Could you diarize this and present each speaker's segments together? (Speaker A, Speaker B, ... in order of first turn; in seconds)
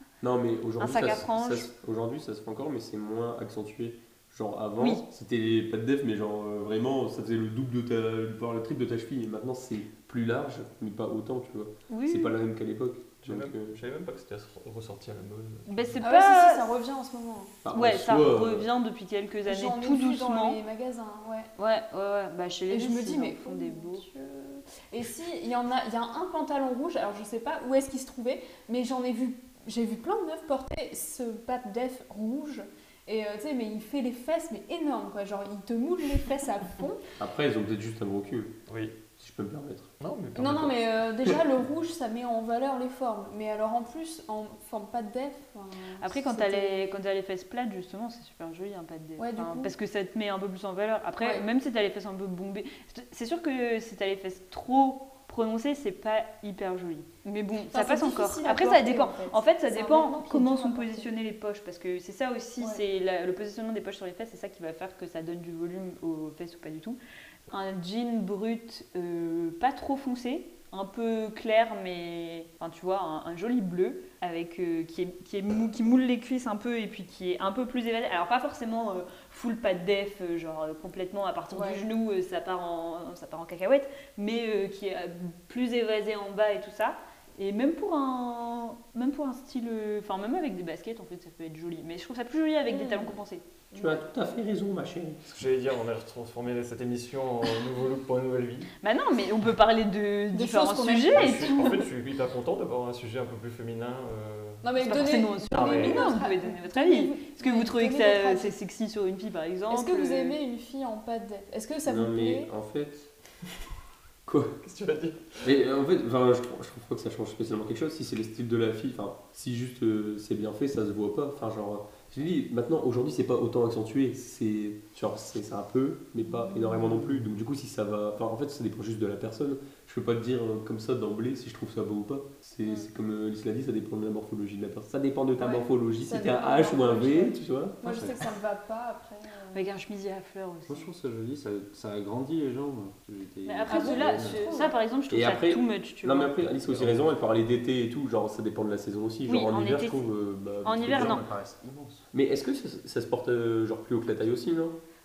Speaker A: 0.2-13.8, 17.6-18.7, 37.2-38.5, 39.2-39.9, 93.7-95.2, 111.9-113.1, 114.3-114.5, 115.4-137.9, 145.1-151.2, 152.1-154.8
Speaker B: 0.8-1.7, 11.9-12.4, 15.7-16.7, 17.7-20.6, 21.6-24.1, 46.0-67.0, 67.5-93.4, 98.8-101.8, 104.8-110.4, 139.5-140.9, 143.4-146.5, 149.3-150.1, 150.6-151.3
Speaker C: 13.2-16.0, 38.7-39.0, 40.0-40.9, 95.3-98.7, 101.1-104.6, 105.5-106.0, 114.6-115.4
Speaker D: 16.0-17.6, 19.5-21.5, 22.7-37.0, 40.4-47.0, 49.2-49.7, 51.2-51.5, 57.6-61.1, 81.5-81.8, 92.7-93.2, 100.3-101.9, 104.6-108.6, 109.7-112.5, 135.4-139.7, 143.7-144.8
Speaker E: 137.8-138.2, 140.7-144.4, 146.7-147.1, 150.8-152.1